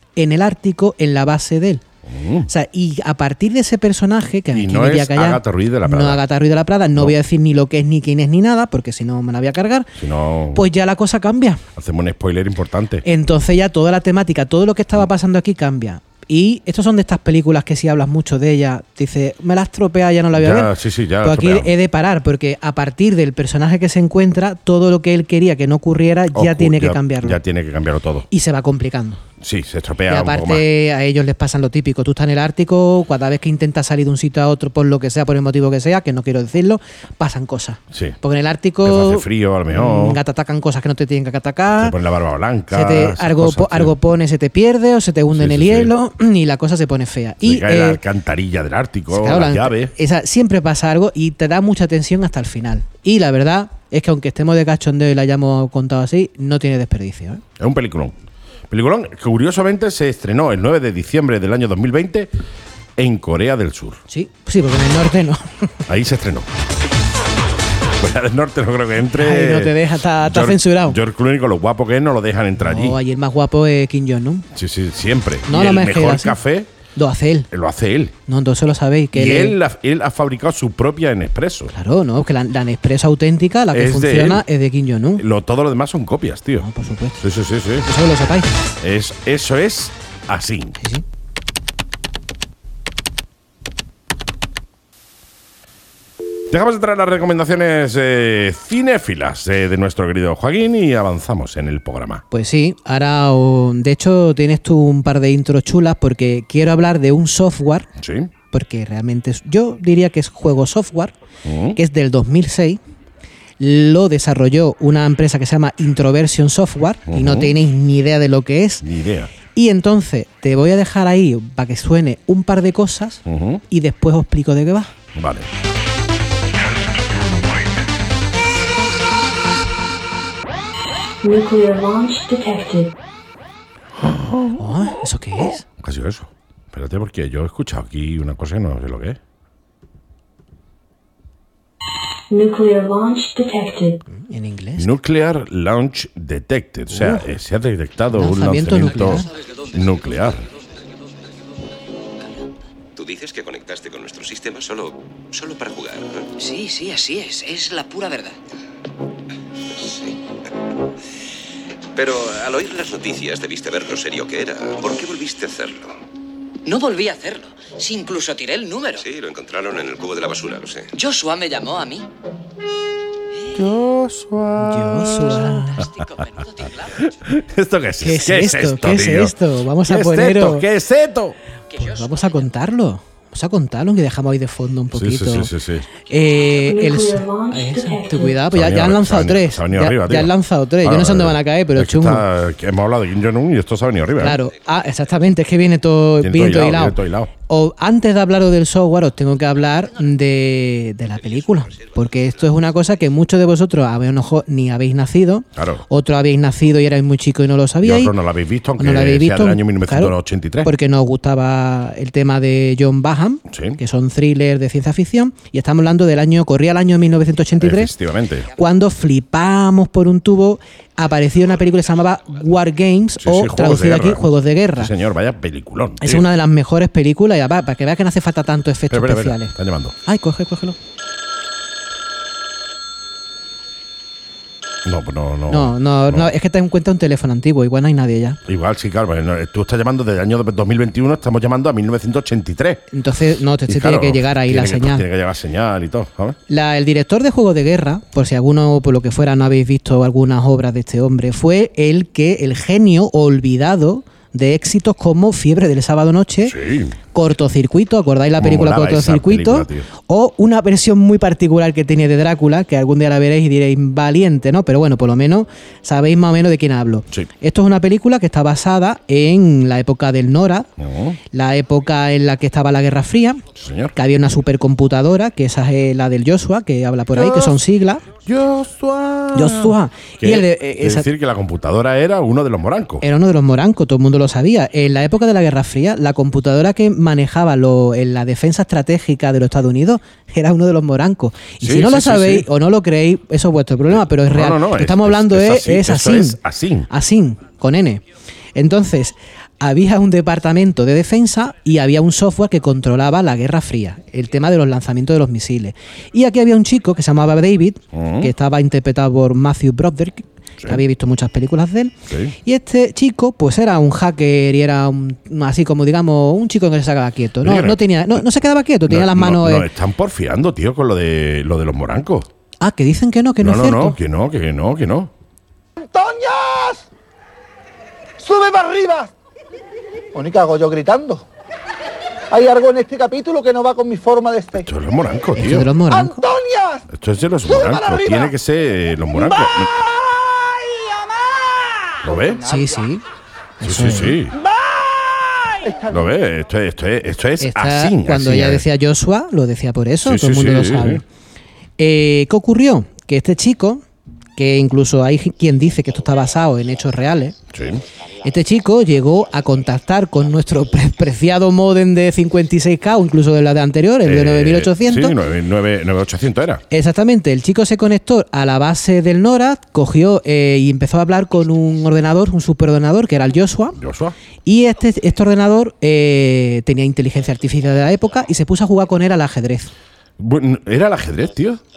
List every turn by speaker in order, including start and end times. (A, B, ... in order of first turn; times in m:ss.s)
0:00.2-0:01.8 A
0:02.1-0:02.5 B
0:02.5-0:09.9 A
0:04.5-0:06.2 B
0:10.0-0:10.6 B
0:10.5-0:11.6 A
0:11.8-0:13.0 B
0:13.0-0:27.4 A
0:20.3-0:21.7 B
0:26.3-0:28.3 B
0:28.3-0:29.2 A
0:29.4-0:30.7 B
0:30.1-0:42.0 A
0:37.9-0:38.2 B
0:38.8-0:40.2 B
0:41.7-0:44.0 B
0:42.7-0:48.0 A
0:45.3-0:45.9 B
0:47.4-0:49.9 B
0:49.1-0:57.4 A
0:57.6-0:58.2 B
0:58.7-1:02.3 B
1:03.0-1:04.0 B
1:04.1-1:05.4 A
1:05.9-1:06.5 B
1:08.0-1:13.0 B
1:09.1-1:11.0 A
1:12.6-1:14.5 A
1:14.6-1:16.7 B
1:15.5-1:16.4 A
1:17.0-1:17.5 A
1:17.5-1:18.2 B
1:18.3-1:19.6 A
1:19.1-1:21.7 B
1:21.7-1:25.2 A
1:23.7-1:24.4 B
1:25.2-1:26.7 B
1:26.6-1:27.2 A
1:27.2-1:27.9 B
1:27.8-1:28.6 A
1:28.8-1:30.8 B
1:30.8-1:31.0 A
1:36.5-1:42.2 B
1:42.3-1:47.9 A
1:48.0-1:48.3 B
1:48.5-1:51.1 A
1:51.4-1:51.8 B
1:51.7-1:52.8 A
1:53.6-1:58.8 A
1:57.1-1:57.6 B
1:58.8-1:59.3 B
1:59.5-2:04.9 A
2:03.3-2:03.6 B
2:05.2-2:05.5 B
2:11.2-2:12.9 C
2:14.0-2:14.8 B
2:14.6-2:15.6 A
2:15.7-2:19.2 B
2:22.3-2:24.0 C
2:24.1-2:25.0 A
2:24.8-2:30.5 B
2:26.9-2:27.3 A
2:28.1-2:29.3 A
2:29.4-2:30.0 D
2:33.0-2:36.3 E
2:36.4-2:38.4 D
2:39.8-2:40.2 E
2:42.0-2:46.0 E
2:46.6-2:49.1 D
2:49.0-2:50.9 E
2:51.0-2:52.1 D
2:53.5-2:55.6 B
2:54.6-2:55.9 A
2:55.5-2:57.1 D
2:57.2-3:01.4 B
2:58.0-3:00.7 A
3:01.7-3:02.5 D
3:01.8-3:05.5 A
3:04.9-3:05.9 B
3:06.1-3:12.2 A
3:06.4-3:08.4 C
3:08.5-3:14.4 B
3:14.2-3:28.1 A
3:16.2-3:17.3 B
3:21.2-3:22.4 E
3:25.6-3:25.8 B
3:27.8-3:30.7 B
3:28.8-3:37.9 A
3:33.5-3:33.8 B
3:37.6-3:38.5 B
3:38.5-3:44.9 A
3:43.2-3:46.3 B
3:46.0-3:50.8 A
3:48.9-3:50.0 B
3:54.8-3:56.3 B
3:55.5-3:58.4 A
3:58.5-4:02.8 B
4:02.9-4:05.0 A
4:03.7-4:06.4 B
4:06.5-4:16.6 A
4:16.4-4:17.0 B
4:17.1-4:30.7 A
4:18.4-4:19.9 B
4:30.8-4:31.2 B
4:31.3-4:33.4 A
4:33.6-4:34.0 B
4:34.0-4:38.0 A
4:37.1-4:37.6 B
4:38.3-4:43.0 B
4:39.3-4:41.1 A
4:43.0-4:58.0 A
4:51.6-4:52.5 B
4:53.9-4:56.9 B
4:58.6-5:19.7 A
5:07.9-5:08.3 B
5:12.1-5:12.4 B
5:17.4-5:18.2 B
5:18.9-5:22.3 B
5:22.6-5:24.0 A
5:23.4-5:25.1 B
5:25.8-5:26.8 F
5:28.2-5:29.1 F
5:30.1-5:31.3 F
5:32.3-5:34.6 F
5:34.5-5:35.7 B
5:35.4-5:36.3 A
5:35.9-5:36.8 F
5:36.9-5:39.9 B
5:37.5-5:38.3 F
5:42.0-5:42.5 B
5:42.4-5:43.0 A
5:43.6-5:44.2 A
5:43.6-5:44.4 B
5:45.9-5:48.6 B
5:47.4-5:51.0 A
5:50.0-5:51.0 B
5:51.8-5:53.8 A
5:54.4-5:57.4 A
5:57.5-5:57.8 B
5:58.2-6:05.2 A
6:04.0-6:06.6 B
6:06.7-6:13.8 A
6:13.8-6:14.2 B
6:14.4-6:19.7 A
6:20.2-6:21.6 B